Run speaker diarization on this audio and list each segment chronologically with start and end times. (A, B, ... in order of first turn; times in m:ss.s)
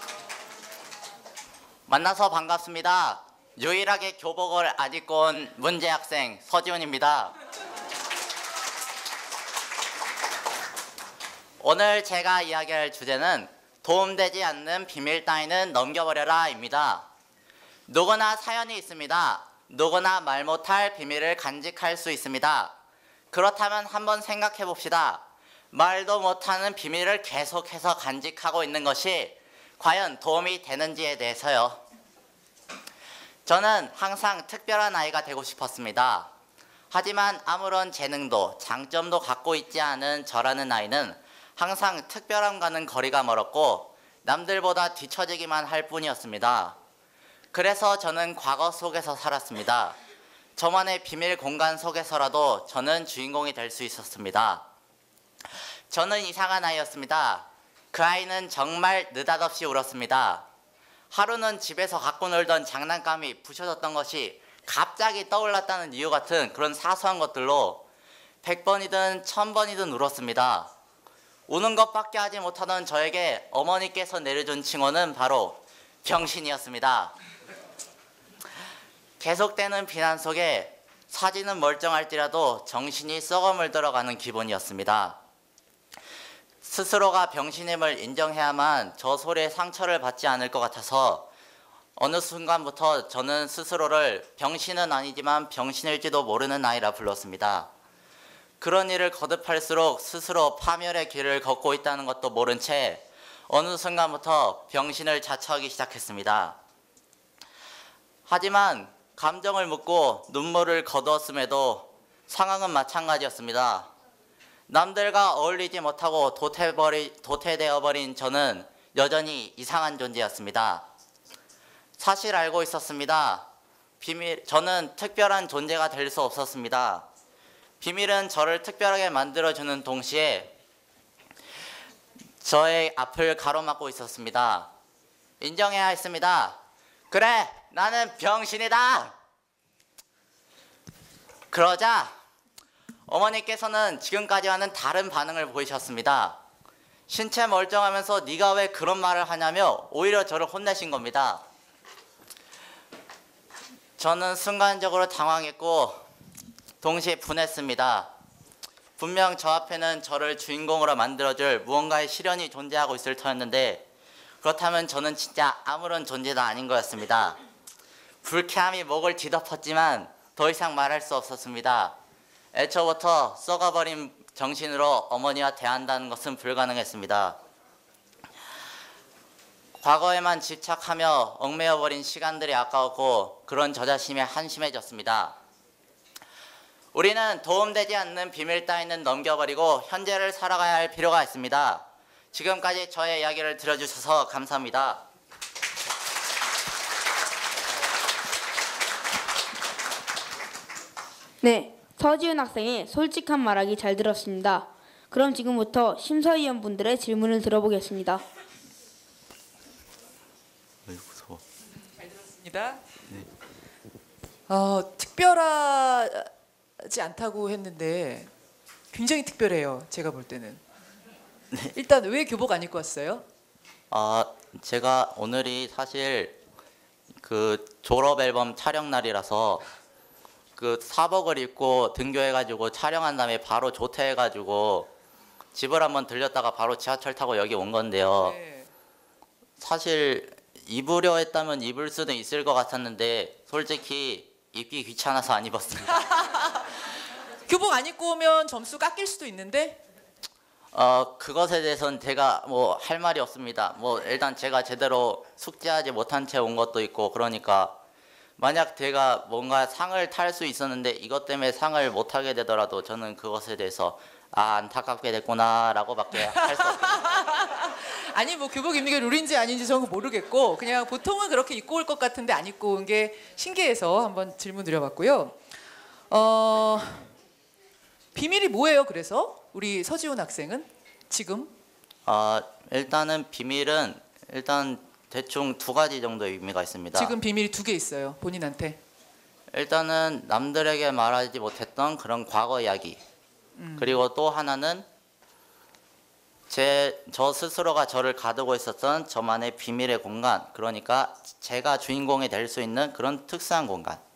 0:01.9-0:07.3 A
0:11.6-0:17.0 A
0:17.9-0:22.7 A
0:23.3-0:31.8 A
0:33.4-0:36.3 A
0:36.9-0:46.8 A
0:47.5-0:50.0 A
0:50.6-0:54.6 A
0:55.9-1:00.5 A
1:01.1-1:07.8 A
1:08.4-1:10.7 A
1:11.5-1:17.1 A
1:19.2-1:25.2 A
1:26.6-1:31.3 A
1:32.0-1:37.7 A
1:38.6-1:46.6 A
1:48.3-1:53.9 A
1:54.7-2:00.8 A
2:02.0-2:03.4 A
2:04.0-2:07.1 A
2:07.8-2:10.5 A
2:12.4-2:14.7 A
2:15.4-2:16.6 A
2:17.1-2:19.1 A
2:21.5-2:22.1 A
2:23.1-2:26.4 A
2:27.1-2:31.4 A
2:34.0-2:36.0 A
2:36.8-2:38.1 A
2:39.0-2:43.8 A
2:44.4-2:47.4 A
2:48.2-2:52.0 A
2:52.5-2:57.4 A
2:59.8-3:05.4 A
3:06.9-3:15.0 A
3:21.4-3:28.2 B
3:30.9-3:31.4 A
3:32.4-3:32.8 C
3:34.5-3:38.3 C
3:38.9-3:40.6 C
3:41.7-3:43.2 C
3:43.9-3:46.4 A
3:47.2-3:49.6 A
3:50.6-3:54.9 A
3:55.5-3:58.4 A
3:58.2-3:58.7 C
3:59.6-4:06.1 A
4:07.4-4:09.8 C
4:10.7-4:17.8 A
4:18.4-4:27.0 A
4:26.3-4:35.4 C
4:36.1-4:37.1 C
4:38.1-4:41.5 C
4:42.0-4:47.1 A
4:46.9-4:48.8 C
4:49.5-4:53.0 A
4:53.6-4:54.0 C
4:53.8-4:54.8 A
4:56.5-5:04.0 A